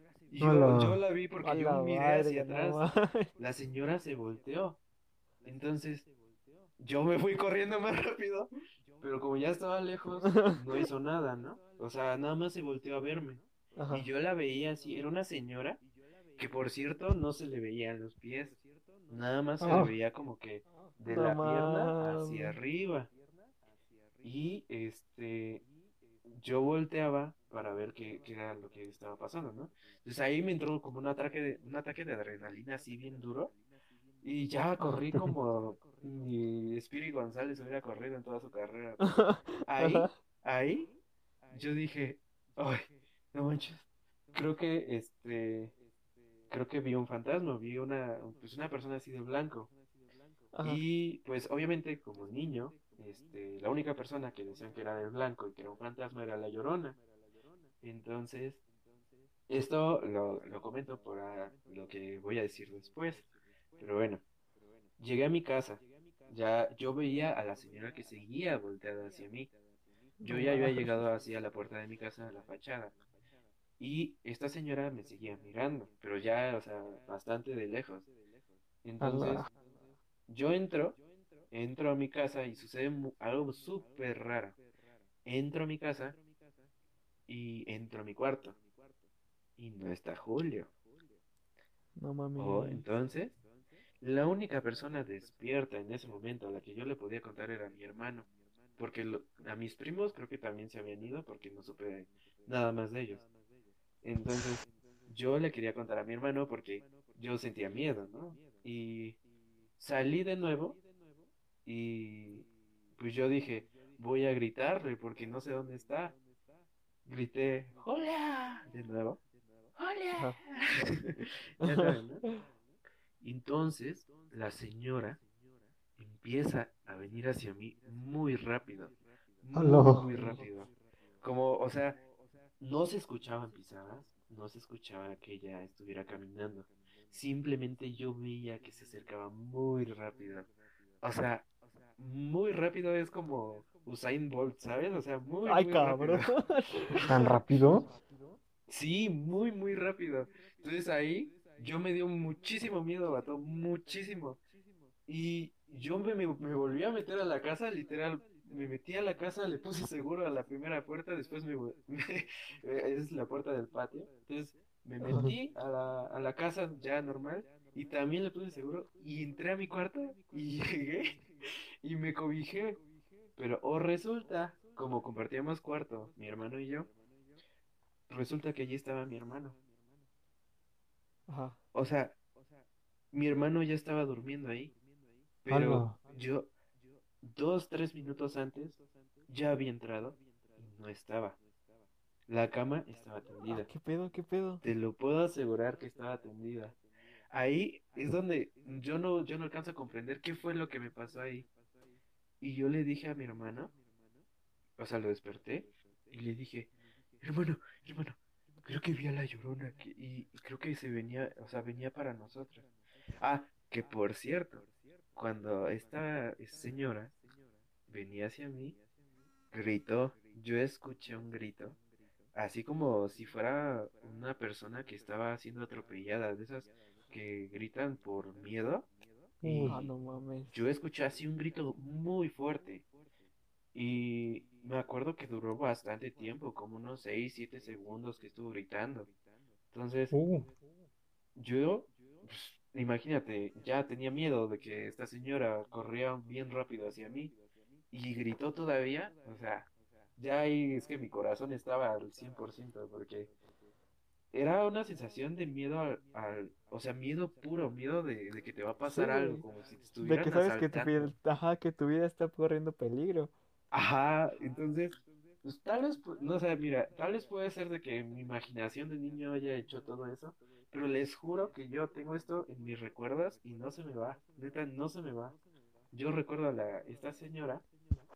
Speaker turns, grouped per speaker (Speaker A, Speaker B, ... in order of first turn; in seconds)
Speaker A: 0.3-2.8, 3.4-4.8, 5.4-6.1, 6.8-15.8, 16.4-23.1, 24.2-25.6, 26.2-33.5, 34.2-40.9, 41.5-45.7, 46.5-49.7, 50.6-57.0, 57.8-58.6, 59.5-64.2, 65.0-69.5, 70.2-72.9, 73.8-78.1, 78.8-79.5, 80.3-81.0, 81.5-84.6, 85.2-86.2, 87.3-88.5, 89.6-90.7, 92.4-93.4, 94.0-98.2, 98.8-103.2, 104.0-109.2, 109.8-110.8, 111.6-112.5, 113.0-116.2, 117.0-119.2, 119.8-122.2, 123.2-125.2, 126.0-130.7, 131.2-132.0, 132.6-140.5, 141.0-141.4, 142.0-146.3, 148.7-154.4, 155.1-171.2, 171.8-172.8, 173.4-176.9, 178.1-179.6, 181.7-182.1, 183.1-184.7, 185.4-186.5, 187.2-191.4, 192.3-193.7, 194.6-196.8, 197.3-201.4, 202.4-203.7, 204.8-212.6, 213.2-214.6, 215.2-217.1, 217.9-218.8, 219.5-221.8, 222.3-228.9, 229.4-229.9, 230.5-232.8, 233.7-239.1, 239.7-240.1, 241.3-247.3, 247.9-253.3, 254.3-261.1, 263.7-275.4, 275.9-277.6
Speaker B: 0.4-1.0, 19.6-19.9, 129.5-130.1, 147.1-147.9, 165.1-165.3, 185.5-186.0, 229.4-229.8, 240.1-240.5
Speaker C: 1.4-3.3, 10.2-10.8, 13.8-14.1, 19.6-19.9, 21.1-22.6, 39.0-40.1, 50.5-50.8, 70.2-71.0, 79.0-79.5, 92.0-92.8, 121.6-122.3, 129.6-130.4, 145.4-147.3, 165.0-165.3, 181.3-181.6, 193.5-194.6, 229.6-230.6, 258.8-259.4, 260.0-263.3